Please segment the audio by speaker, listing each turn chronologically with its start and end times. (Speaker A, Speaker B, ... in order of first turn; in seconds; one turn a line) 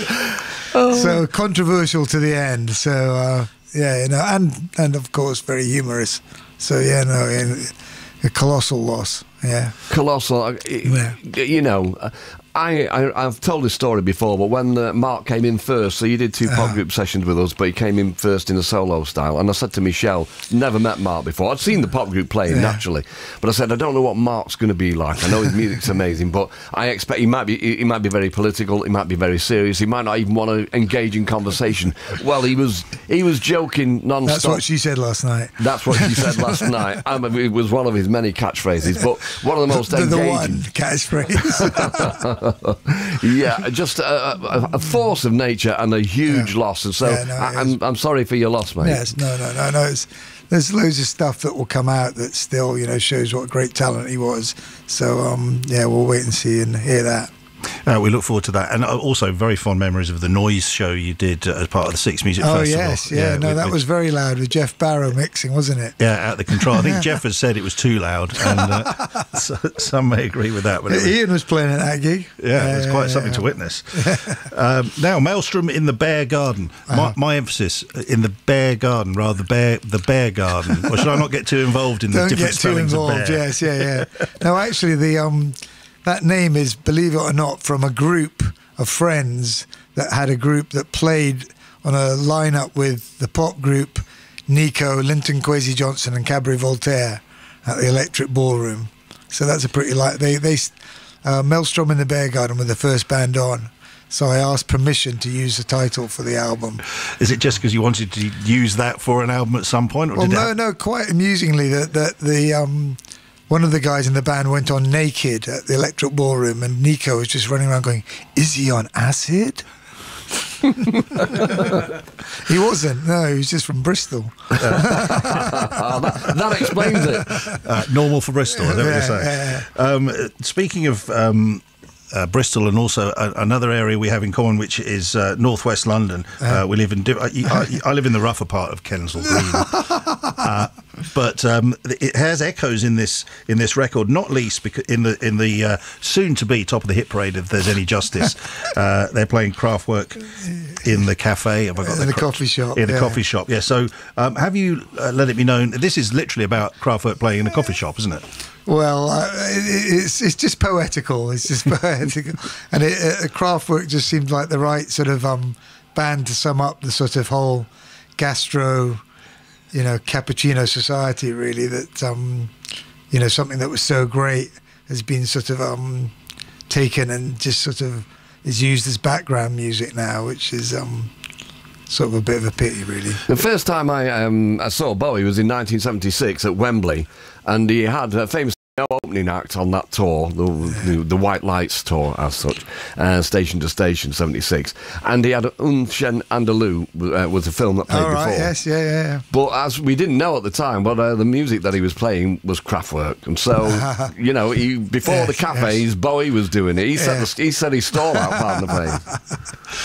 Speaker A: 0.7-1.1
Speaker B: 0.9-9.7
Speaker A: 9.9-34.6
Speaker B: 10.8-11.2
Speaker B: 16.5-16.8
Speaker B: 22.5-22.8
Speaker B: 34.2-36.2
Speaker A: 35.6-40.6
Speaker B: 39.9-42.2
Speaker A: 41.8-49.2
Speaker B: 46.3-47.8
Speaker B: 48.8-57.3
Speaker C: 57.8-63.8
Speaker B: 62.4-67.0
Speaker C: 66.0-71.2
Speaker B: 70.9-73.4
Speaker C: 72.4-84.0
Speaker B: 76.9-77.1
Speaker B: 82.1-106.8
Speaker C: 107.1-110.5
Speaker B: 110.1-119.7
Speaker B: 121.0-125.6
Speaker C: 124.6-126.3
Speaker A: 125.3-127.5
Speaker B: 127.3-127.6
Speaker C: 127.5-158.3
Speaker B: 128.5-129.7
Speaker B: 151.8-153.2
Speaker B: 158.7-169.0
Speaker B: 169.7-172.5
Speaker B: 173.1-176.1
Speaker B: 176.7-181.1
Speaker B: 181.9-183.2
Speaker A: 183.3-198.6
Speaker B: 197.9-199.2
Speaker A: 199.3-209.1
Speaker B: 203.6-204.1
Speaker B: 205.0-205.8
Speaker B: 206.9-207.3